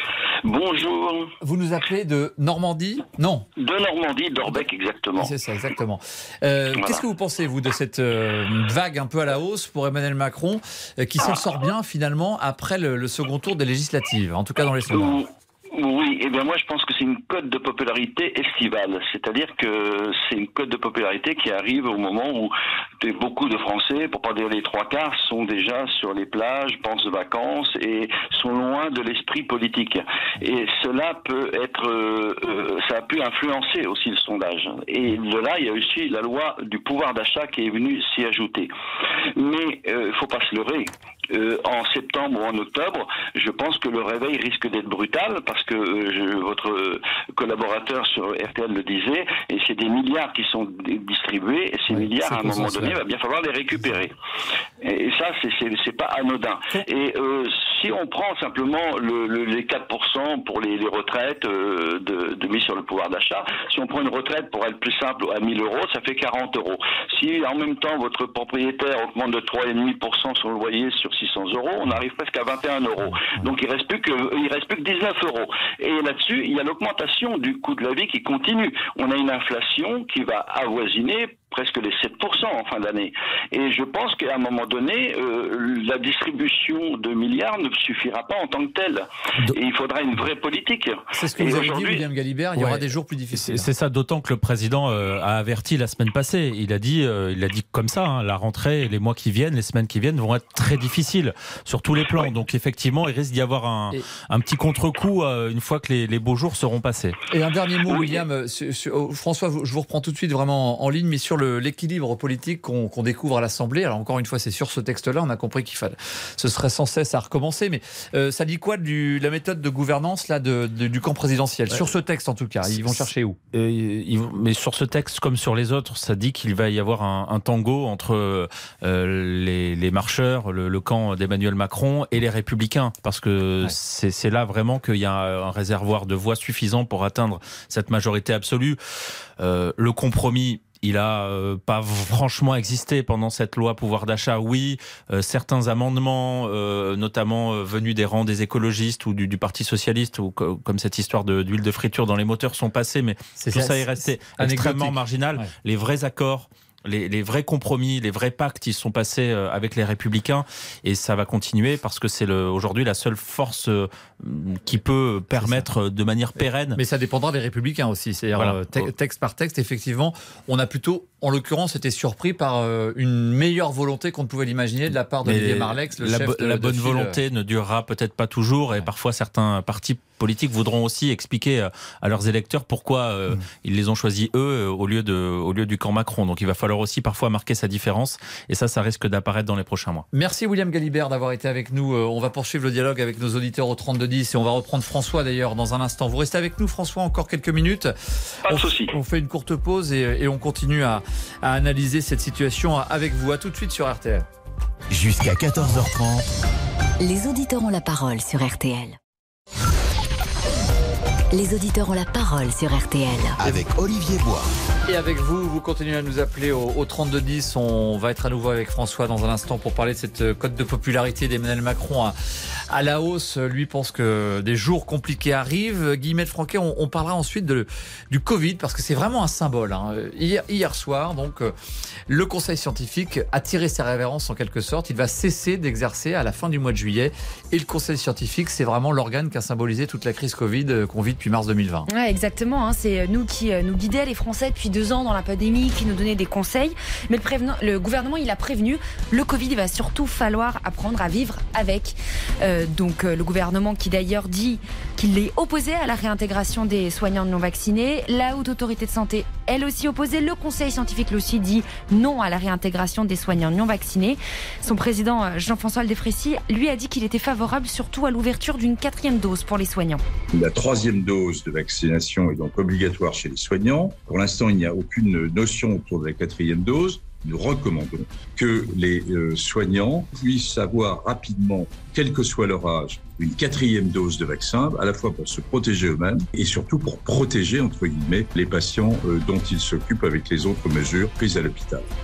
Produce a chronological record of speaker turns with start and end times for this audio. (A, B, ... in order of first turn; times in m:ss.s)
0:00.4-0:01.3 A
0:01.4-0:03.5 B
0:03.6-0:05.3 A
0:05.2-0:15.2 B
0:14.9-0:38.7 A
0:39.4-0:54.1 A
0:51.9-0:53.0 B
0:54.8-1:32.0 A
1:31.1-1:33.7 B
1:32.6-1:47.2 C
1:47.3-2:03.4 B
2:02.7-2:18.8 C
2:19.4-2:46.8 C
2:33.4-2:35.5 B
2:45.3-2:45.7 B
2:46.4-2:57.2 B
2:48.4-2:48.8 C
2:55.2-3:10.0 C
3:10.1-3:24.3 B
3:18.4-3:18.9 A
3:24.9-3:26.2 D
3:27.0-3:29.0 E
3:31.3-3:33.4 E
3:33.4-3:34.5 D
3:34.9-3:51.5 B
3:52.1-4:01.9 B
4:01.9-4:30.0 F
4:30.3-4:51.9 G